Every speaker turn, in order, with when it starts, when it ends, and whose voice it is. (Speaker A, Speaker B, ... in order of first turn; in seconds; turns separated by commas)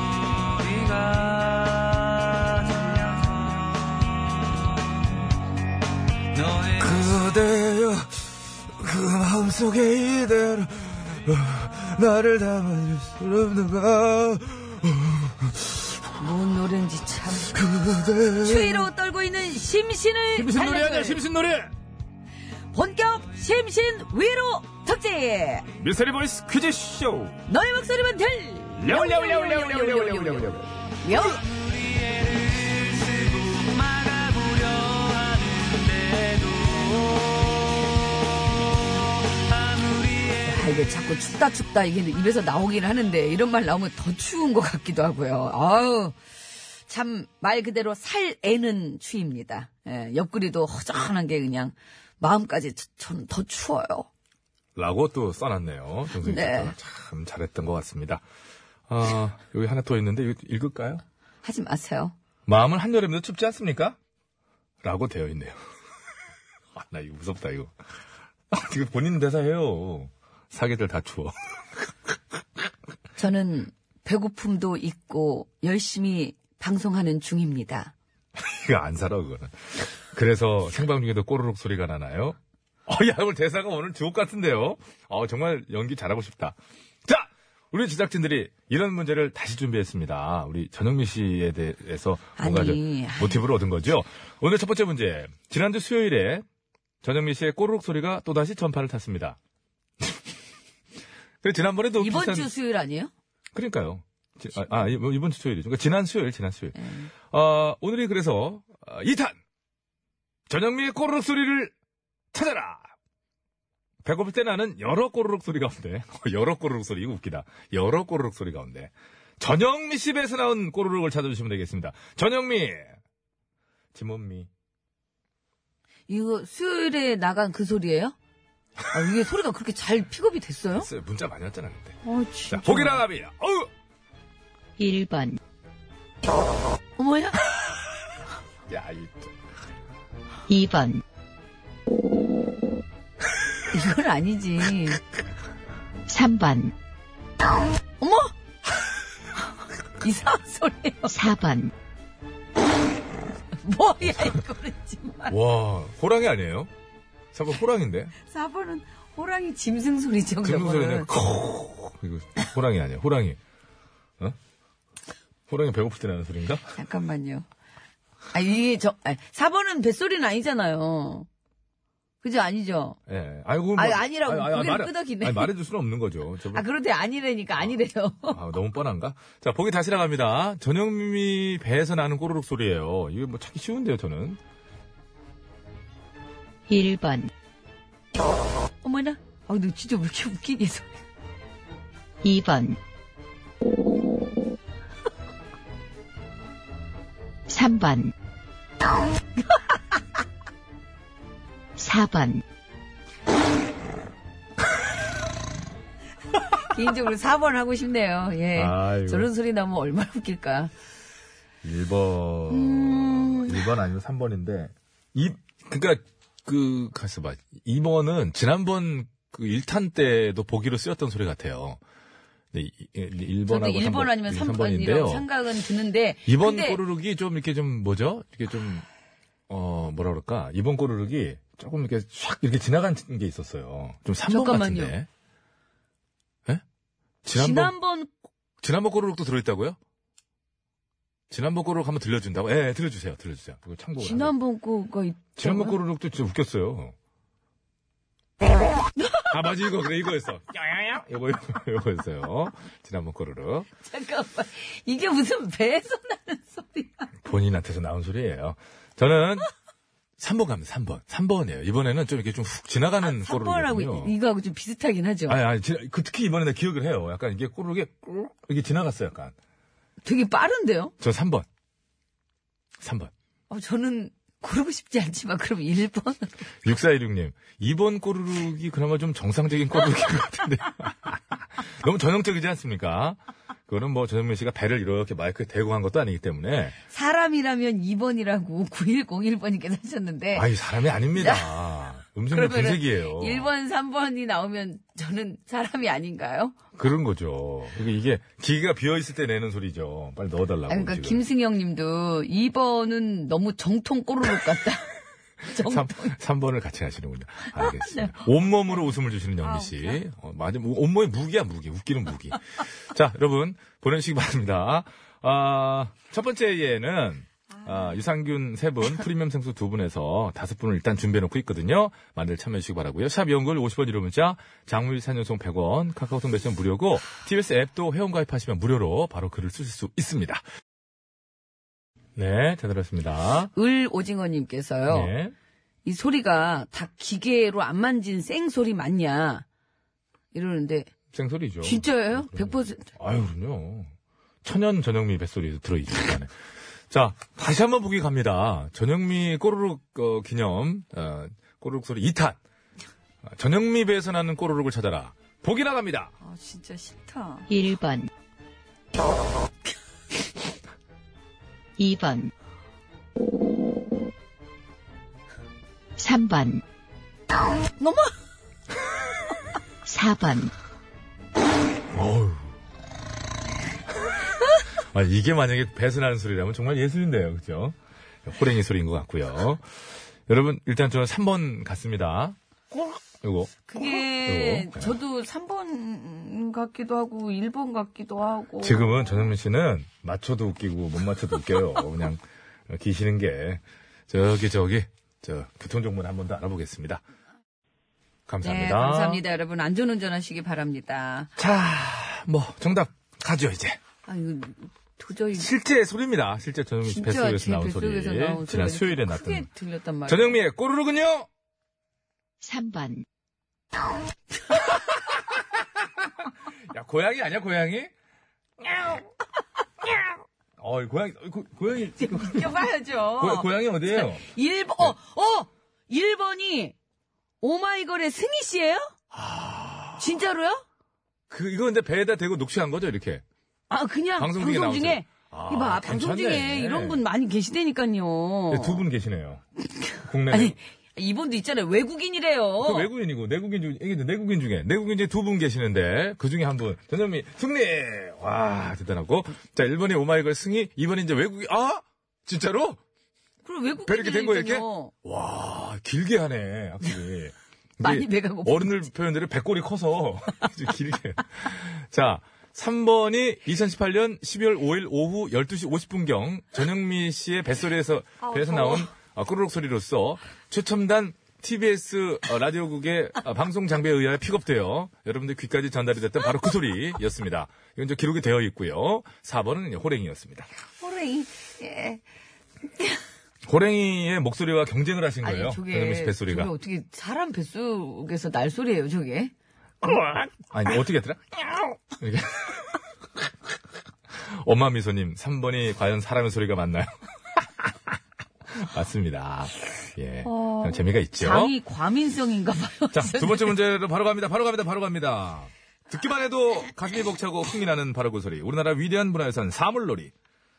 Speaker A: 0.7-4.0, Speaker A: 6.3-16.0, Speaker B: 16.2-17.6, Speaker A: 17.5-18.9, Speaker B: 18.4-21.2, Speaker A: 20.3-21.7, Speaker B: 22.7-25.7, Speaker A: 25.7-27.4, Speaker B: 27.5-31.4, Speaker A: 28.8-31.3, Speaker A: 32.9-35.4, Speaker B: 40.3-46.2, Speaker B: 46.9-54.1, Speaker A: 54.8-58.2, Speaker B: 56.2-56.7, Speaker A: 58.9-61.0, Speaker B: 61.4-62.1, Speaker A: 62.5-64.0, Speaker A: 64.8-65.6, Speaker A: 66.7-67.7, Speaker A: 68.5-71.8, Speaker B: 73.2-77.9, Speaker A: 78.3-96.4, Speaker B: 92.4-93.4, Speaker A: 97.0-99.4, Speaker A: 100.0-100.3, Speaker A: 101.4-102.5, Speaker B: 102.0-103.1, Speaker A: 103.5-109.4, Speaker B: 106.7-107.1, Speaker A: 110.5-111.7, Speaker A: 112.3-112.9, Speaker A: 114.0-123.0, Speaker A: 123.9-124.5, Speaker B: 126.1-128.1, Speaker B: 128.9-130.9, Speaker A: 130.7-132.0, Speaker B: 132.0-133.0, Speaker A: 132.5-133.7, Speaker C: 134.8-135.4, Speaker B: 137.0-137.5, Speaker A: 138.7-139.3, Speaker C: 140.5-141.0, Speaker B: 143.7-145.0, Speaker C: 146.1-146.7, Speaker B: 148.0-148.3, Speaker B: 150.0-151.2, Speaker C: 151.1-151.7, Speaker B: 153.6-155.3, Speaker A: 155.3-156.7, Speaker A: 157.3-158.1, Speaker B: 158.2-161.1, Speaker A: 160.4-163.4, Speaker A: 165.5-166.7, Speaker B: 166.7-167.4, Speaker B: 168.3-171.3, Speaker B: 172.2-173.0, Speaker A: 173.1-176.6, Speaker B: 173.8-175.5, Speaker B: 176.5-178.4, Speaker A: 178.3-184.4, Speaker C: 186.7-187.3, Speaker B: 188.8-190.9, Speaker C: 192.2-192.8, Speaker C: 197.5-198.1, Speaker B: 199.5-199.7, Speaker C: 201.8-202.4, Speaker B: 206.6-210.7, Speaker A: 208.5-209.3, Speaker A: 211.6-221.8, Speaker B: 212.5-213.7, Speaker A: 222.5-225.3, Speaker B: 223.5-226.8, Speaker A: 226.2-228.8, Speaker A: 229.5-235.1, Speaker B: 234.2-234.9, Speaker A: 237.2-237.7, Speaker B: 237.3-238.1, Speaker A: 238.6-239.8, Speaker A: 241.3-244.3, Speaker B: 244.0-245.8, Speaker A: 245.4-246.9, Speaker B: 249.0-249.2, Speaker A: 249.2-253.7, Speaker B: 253.8-257.1, Speaker A: 257.2-259.5, Speaker A: 260.2-264.1, Speaker B: 263.0-265.4, Speaker A: 265.3-269.3, Speaker B: 270.0-270.9, Speaker A: 271.0-271.5, Speaker A: 272.8-273.1, Speaker B: 273.5-276.4, Speaker A: 276.6-286.8, Speaker B: 286.9-290.5, Speaker A: 290.3-293.5, Speaker B: 291.1-291.7, Speaker B: 292.3-296.5, Speaker A: 296.7-301.2, Speaker B: 300.7-306.1, Speaker A: 305.5-330.4, Speaker B: 307.5-308.3, Speaker B: 309.4-310.0, Speaker A: 332.1-333.5, Speaker B: 333.5-335.1, Speaker A: 334.9-335.3, Speaker B: 335.9-339.4, Speaker B: 340.3-340.9, Speaker A: 341.1-343.9, Speaker B: 341.6-342.9, Speaker A: 344.4-346.3, Speaker A: 346.9-352.4, Speaker A: 353.2-356.1, Speaker B: 356.2-357.5, Speaker C: 357.5-358.1, Speaker C: 361.8-362.3, Speaker C: 366.0-366.6, Speaker B: 367.8-368.1, Speaker C: 369.9-370.5, Speaker A: 371.9-372.5, Speaker A: 374.8-379.6, Speaker A: 380.3-382.4, Speaker A: 383.2-384.9, Speaker B: 383.6-389.3, Speaker A: 388.6-397.0, Speaker A: 398.3-399.2, Speaker B: 398.4-401.3, Speaker A: 401.4-403.8, Speaker B: 404.0-405.5, Speaker A: 405.4-409.5, Speaker B: 406.8-410.4, Speaker A: 410.1-411.3, Speaker C: 412.4-413.0, Speaker A: 416.6-417.9, Speaker A: 418.6-419.1, Speaker A: 420.6-422.5, Speaker B: 422.0-426.7, Speaker A: 423.2-424.2, Speaker B: 427.4-428.9, Speaker A: 429.1-430.0, Speaker B: 430.0-430.6, Speaker A: 431.3-433.2, Speaker B: 433.7-438.8, Speaker A: 434.2-437.0, Speaker A: 438.5-439.4, Speaker A: 440.0-440.6, Speaker B: 440.3-442.9, Speaker A: 442.6-452.8, Speaker B: 453.4-454.9, Speaker A: 453.9-480.5, Speaker B: 457.8-458.9, Speaker B: 468.2-468.9, Speaker B: 480.8-482.0, Speaker A: 483.4-486.5, Speaker B: 485.2-489.3, Speaker A: 489.8-492.8, Speaker A: 494.1-497.9, Speaker A: 498.5-501.5, Speaker B: 500.2-503.5, Speaker A: 502.9-510.1